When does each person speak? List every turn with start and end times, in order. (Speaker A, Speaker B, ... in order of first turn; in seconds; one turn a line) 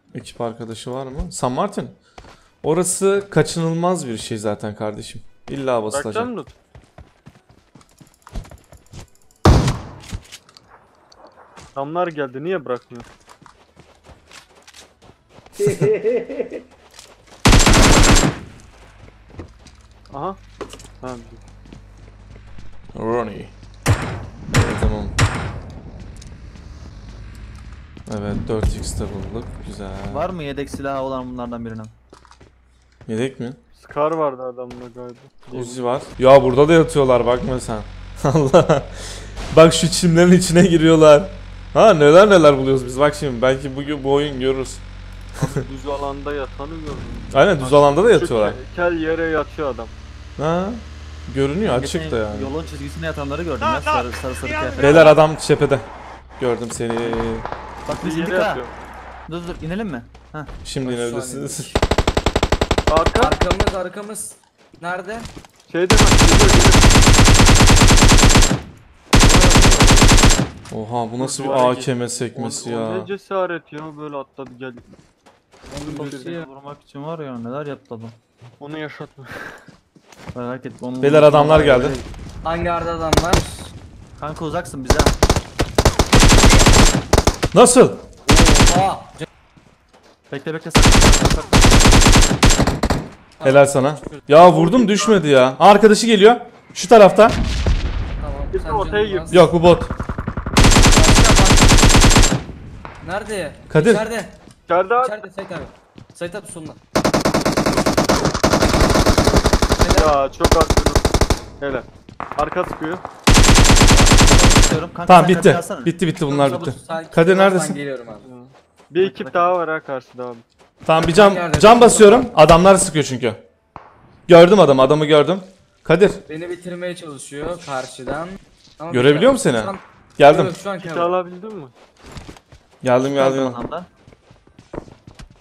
Speaker A: 0.1-1.9
Speaker A: 2.6-6.3
Speaker B: 5.9-6.5
Speaker B: 11.7-13.1
Speaker B: 20.1-20.4
Speaker B: 21.0-21.4
Speaker A: 22.9-23.5
Speaker A: 24.5-25.1
Speaker A: 28.1-30.3
Speaker C: 30.1-31.9
Speaker A: 33.1-33.6
Speaker B: 33.7-35.8
Speaker A: 35.5-44.8
Speaker A: 45.4-45.6
Speaker B: 45.4-47.3
Speaker A: 47.3-48.6
Speaker C: 47.6-47.9
Speaker B: 48.0-49.9
Speaker A: 50.4-52.5
Speaker C: 51.6-55.1
Speaker A: 54.8-55.9
Speaker B: 54.8-55.1
Speaker A: 56.4-57.5
Speaker C: 57.9-58.6
Speaker B: 58.0-58.7
Speaker C: 59.3-60.5
Speaker A: 60.6-61.7
Speaker D: 60.8-61.8
Speaker B: 62.9-63.3
Speaker D: 63.2-65.3
Speaker B: 65.7-67.0
Speaker B: 69.2-70.1
Speaker A: 70.7-73.1
Speaker B: 71.2-74.9
Speaker D: 75.7-76.4
Speaker B: 75.8-76.4
Speaker C: 75.9-78.2
Speaker B: 78.6-79.6
Speaker C: 80.3-82.0
Speaker A: 81.0-82.0
Speaker B: 81.7-82.0
Speaker D: 82.4-83.7
Speaker C: 84.2-85.1
Speaker A: 87.5-88.0
Speaker D: 88.2-89.2
Speaker C: 90.3-91.9
Speaker D: 93.4-94.3
Speaker A: 93.4-97.4
Speaker B: 94.5-95.2
Speaker D: 98.2-99.4
Speaker B: 98.5-99.4
Speaker A: 99.3-99.9
Speaker D: 100.8-101.8
Speaker D: 103.0-104.4
Speaker A: 103.7-104.0
Speaker B: 104.7-105.1
Speaker D: 105.0-106.8
Speaker D: 109.8-110.1
Speaker B: 109.9-111.0
Speaker B: 111.6-113.0
Speaker C: 113.7-115.9
Speaker A: 115.1-117.8
Speaker D: 116.3-118.3
Speaker B: 118.2-120.4
Speaker C: 119.0-119.3
Speaker D: 119.0-119.5
Speaker A: 120.8-123.4
Speaker D: 121.0-122.3
Speaker A: 124.3-126.2
Speaker D: 126.3-131.1
Speaker A: 128.9-130.6
Speaker B: 130.8-131.7
Speaker A: 132.8-133.6
Speaker C: 133.1-133.9